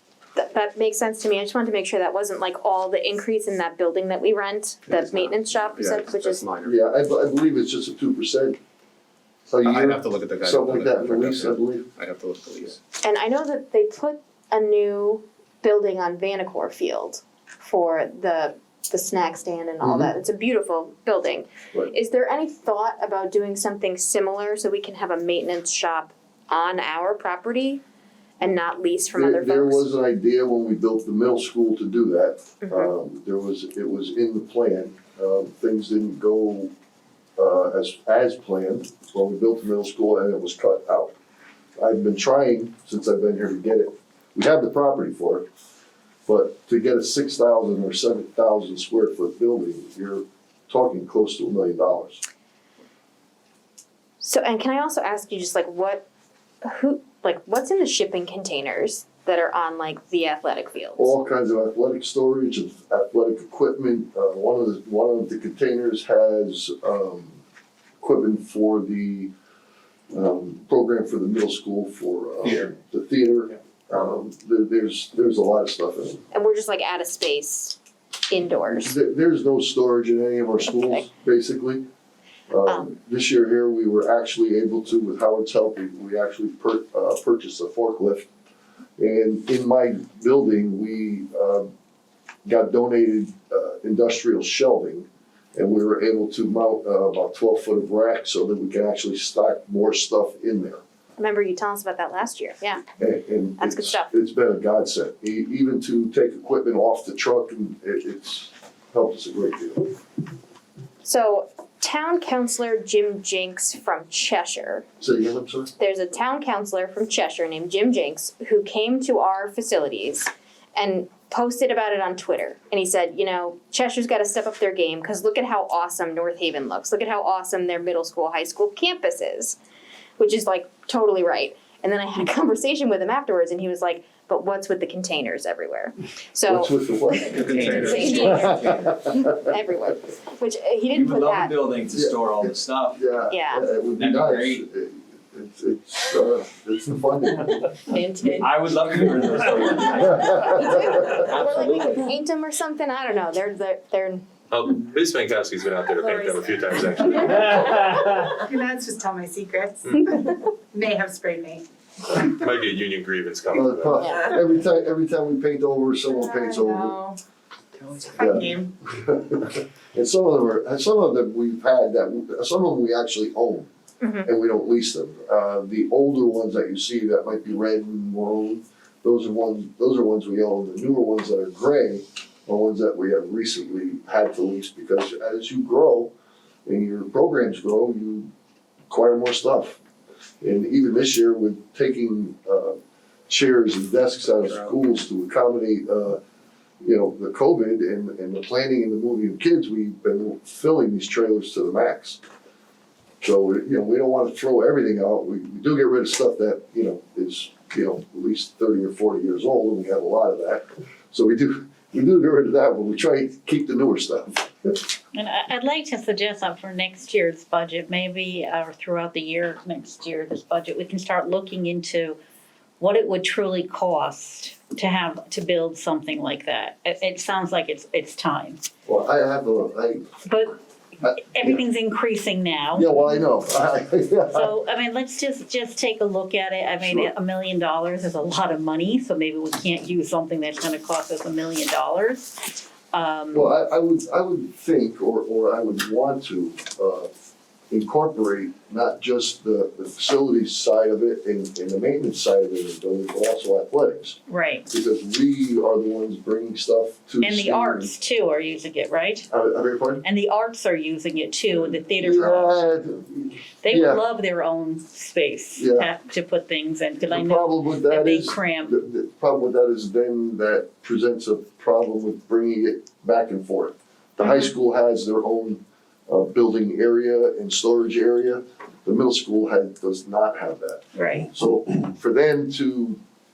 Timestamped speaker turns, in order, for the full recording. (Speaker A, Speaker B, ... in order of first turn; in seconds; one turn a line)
Speaker A: 0.4-6.5
Speaker B: 5.0-6.7
Speaker C: 6.6-8.6
Speaker C: 9.5-11.9
Speaker B: 9.6-12.8
Speaker A: 13.0-27.8
Speaker C: 19.8-20.1
Speaker A: 28.4-29.9
Speaker C: 29.1-36.7
Speaker A: 32.6-32.9
Speaker C: 37.4-41.1
Speaker C: 41.8-45.5
Speaker C: 46.3-52.2
Speaker A: 54.2-56.1
Speaker A: 56.6-61.2
Speaker C: 61.0-67.4
Speaker C: 68.0-69.3
Speaker C: 70.1-76.2
Speaker A: 76.3-77.8
Speaker A: 78.3-79.0
Speaker C: 78.8-81.8
Speaker C: 82.5-88.3
Speaker A: 82.7-83.0
Speaker C: 89.0-91.7
Speaker C: 92.5-100.8
Speaker A: 101.2-102.8
Speaker C: 103.0-109.9
Speaker A: 103.6-104.1
Speaker A: 111.0-114.8
Speaker C: 115.0-115.7
Speaker A: 115.8-129.6
Speaker A: 130.2-141.5
Speaker C: 136.5-139.3
Speaker D: 137.2-138.0
Speaker B: 137.4-138.9
Speaker D: 140.9-143.1
Speaker C: 141.9-142.3
Speaker C: 142.9-147.8
Speaker A: 143.3-143.7
Speaker D: 144.0-144.6
Speaker D: 148.3-152.1
Speaker C: 150.2-150.7
Speaker A: 150.6-154.3
Speaker E: 154.5-157.6
Speaker F: 156.0-161.7
Speaker E: 162.2-164.1
Speaker C: 163.5-167.0
Speaker A: 163.9-164.3
Speaker F: 166.2-167.2
Speaker F: 167.8-168.7
Speaker C: 168.2-173.7
Speaker A: 174.0-174.3
Speaker C: 174.2-186.1
Speaker C: 186.7-188.3
Speaker C: 188.9-189.8
Speaker C: 190.4-196.2
Speaker C: 196.8-202.2
Speaker C: 203.2-214.8
Speaker G: 215.2-222.2
Speaker G: 222.8-228.6
Speaker C: 228.9-230.1
Speaker G: 230.2-233.1
Speaker C: 231.0-231.6
Speaker C: 232.8-234.5
Speaker G: 234.3-243.5
Speaker C: 236.8-237.1
Speaker C: 243.3-247.1
Speaker C: 247.7-257.9
Speaker G: 254.3-254.7
Speaker G: 257.2-259.3
Speaker C: 259.3-260.1
Speaker G: 260.0-262.6
Speaker C: 261.5-264.0
Speaker G: 263.6-268.8
Speaker C: 265.6-265.9
Speaker C: 267.0-283.0
Speaker G: 280.9-281.3